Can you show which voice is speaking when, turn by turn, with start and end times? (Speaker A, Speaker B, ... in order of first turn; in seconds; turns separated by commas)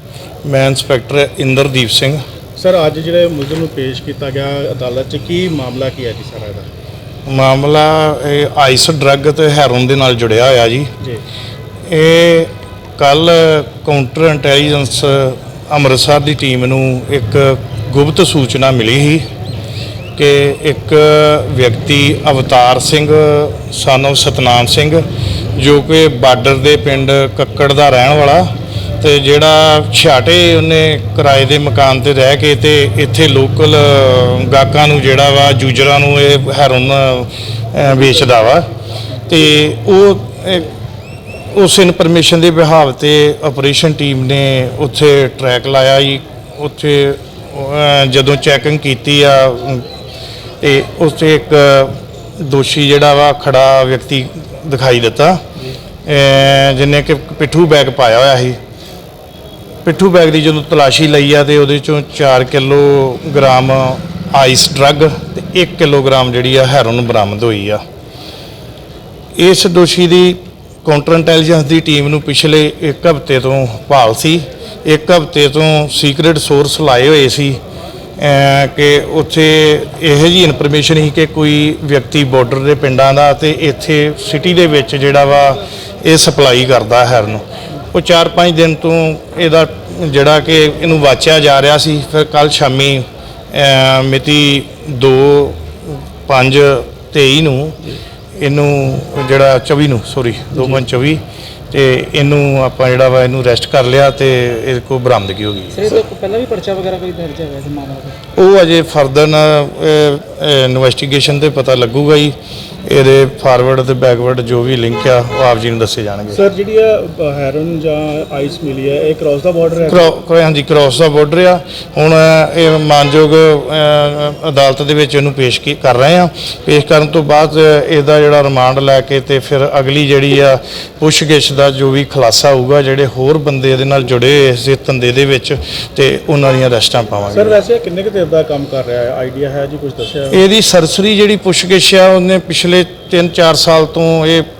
Speaker A: 0.5-2.2, Speaker B: 2.6-6.7, Speaker A: 7.3-10.9, Speaker A: 11.9-19.3, Speaker A: 20.2-25.0, Speaker A: 25.6-28.5, Speaker A: 29.0-38.7, Speaker A: 39.3-40.7, Speaker A: 41.5-49.9, Speaker A: 50.6-55.4, Speaker A: 56.0-58.6, Speaker A: 59.8-67.8, Speaker A: 69.4-77.6, Speaker A: 78.2-105.9, Speaker C: 105.8-108.1, Speaker A: 108.4-112.3, Speaker A: 112.9-116.4, Speaker B: 116.3-120.1, Speaker A: 119.9-137.6, Speaker B: 137.3-140.4, Speaker A: 140.3-144.4